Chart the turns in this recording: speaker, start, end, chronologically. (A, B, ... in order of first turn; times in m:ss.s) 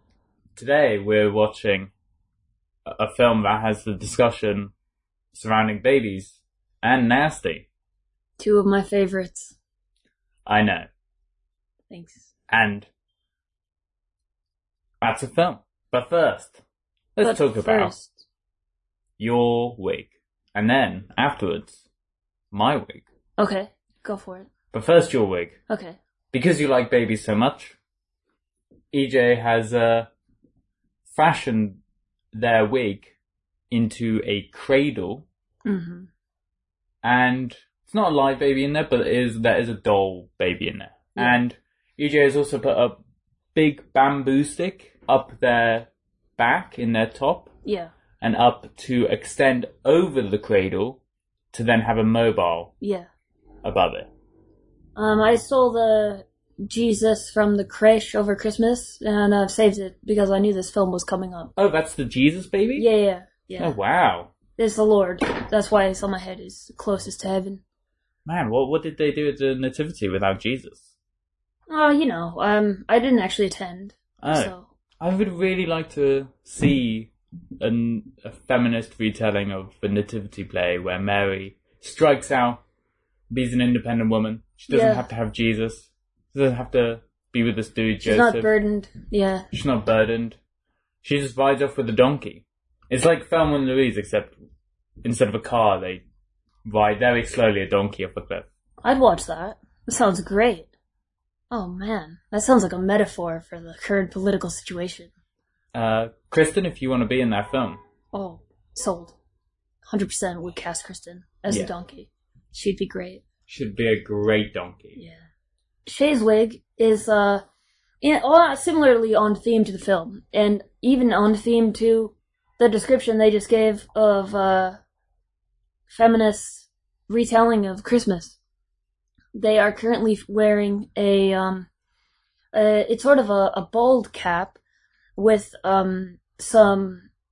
0:00.6-0:01.9 A
0:02.9-0:04.7 A
0:05.3-0:07.7 A
0:08.4-0:09.6 B
0:10.5-0:10.9 A
0:11.9-0:12.3 B
0:12.5-0:12.9 A
0:15.0-0:16.6 A
0:17.2-0:17.9 A
0:17.2-0:18.2 B
0:19.2-0:21.8 A
0:22.5-0:23.0 A
0:23.4-0:24.5 B
0:24.7-0:25.6 A
0:25.7-0:26.0 B
0:26.3-0:27.8 A
0:28.9-0:30.1 A
0:31.1-0:31.8 A
0:32.3-0:33.2 A
0:33.7-0:35.3 A
0:35.6-0:36.1 B
0:37.0-0:43.0 A
0:43.5-0:47.5 A
0:47.6-0:47.9 B
0:48.2-0:51.0 A
0:51.5-0:52.7 A
0:52.8-0:53.1 B
0:53.6-0:54.1 A
0:55.0-1:01.5 B
1:01.6-1:02.9 A
1:02.8-1:03.8 B
1:03.6-1:04.3 A
1:04.6-1:07.6 B
1:08.3-1:10.9 A
1:11.7-1:14.7 B
1:14.2-1:22.6 A
1:23.3-1:28.5 A
1:24.7-1:25.1 B
1:28.0-1:29.5 B
1:29.5-1:30.4 A
1:31.0-1:34.3 A
1:35.0-1:36.0 A
1:36.6-1:38.5 A
1:38.8-1:40.7 B
1:41.5-1:45.1 B
1:45.7-1:47.8 A
1:48.1-1:49.2 B
1:49.9-1:53.2 B
1:53.5-1:55.0 A
1:55.0-1:55.3 B
1:55.9-1:57.4 B
1:58.0-2:04.8 B
2:05.9-2:08.4 B
2:09.3-2:11.7 B
2:12.5-2:14.6 B
2:15.2-2:17.1 B